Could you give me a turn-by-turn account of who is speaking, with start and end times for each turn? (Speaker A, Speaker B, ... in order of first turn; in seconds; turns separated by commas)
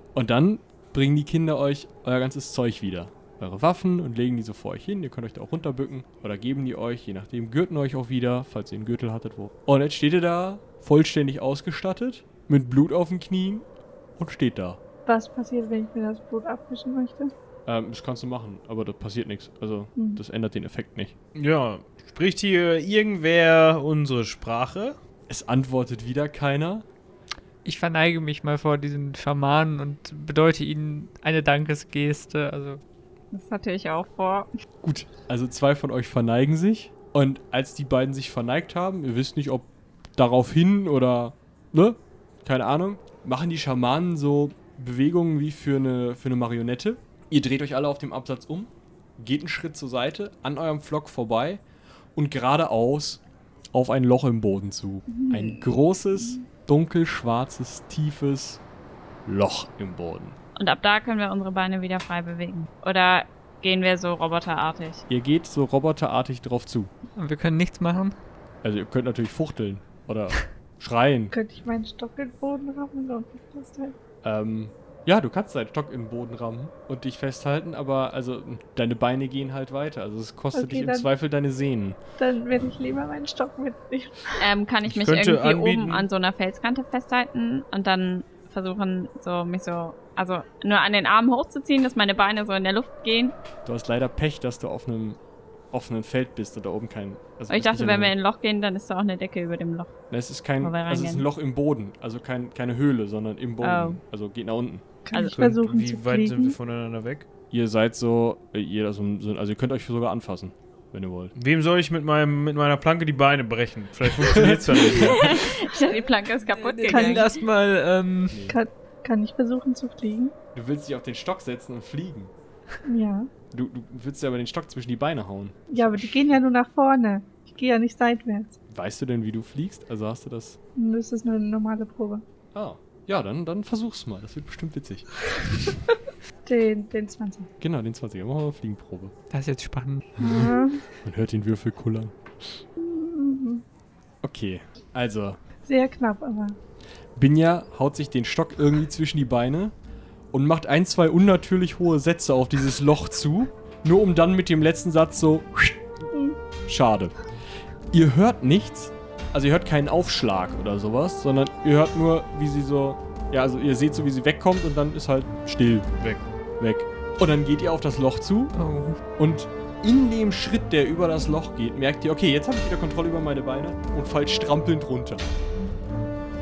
Speaker A: 0.1-14.8, Speaker B: 15.1-17.3, Speaker A: 17.7-21.1, Speaker C: 21.4-25.0, Speaker A: 25.3-26.9, Speaker D: 27.6-32.8, Speaker E: 33.3-34.5, Speaker A: 34.8-51.6, Speaker A: 52.1-53.2, Speaker A: 53.7-58.6, Speaker B: 55.1-55.4, Speaker A: 59.3-60.4, Speaker E: 60.6-65.0, Speaker A: 65.1-66.9, Speaker D: 67.2-68.2, Speaker A: 68.6-71.3, Speaker B: 71.3-74.0, Speaker A: 74.2-82.0, Speaker B: 80.5-81.1, Speaker B: 82.2-84.5, Speaker E: 84.4-93.4, Speaker C: 84.8-86.1, Speaker A: 93.7-95.2, Speaker A: 95.7-98.2, Speaker E: 97.5-99.9, Speaker A: 100.1-104.9, Speaker E: 100.6-101.2, Speaker E: 103.6-104.0, Speaker B: 105.0-106.6, Speaker C: 105.2-107.3, Speaker A: 107.5-111.3, Speaker C: 111.3-115.5, Speaker A: 114.2-115.4, Speaker E: 115.0-117.3, Speaker D: 116.5-118.4, Speaker B: 116.9-117.3, Speaker A: 118.3-118.6, Speaker B: 118.5-120.3, Speaker A: 120.5-122.3, Speaker B: 122.8-123.3, Speaker A: 123.5-126.2, Speaker B: 125.7-128.6, Speaker A: 128.7-130.6, Speaker B: 130.8-132.2, Speaker A: 132.5-135.7, Speaker B: 136.5-137.5, Speaker A: 137.6-139.1, Speaker D: 139.3-140.4, Speaker B: 140.2-140.9, Speaker A: 140.2-142.6, Speaker B: 142.8-143.6, Speaker A: 144.2-145.4, Speaker B: 145.7-146.6, Speaker A: 147.2-149.7, Speaker A: 150.3-155.8, Speaker A: 156.7-157.2, Speaker A: 157.9-165.9, Speaker A: 166.6-168.6, Speaker D: 168.5-169.0, Speaker A: 169.2-175.3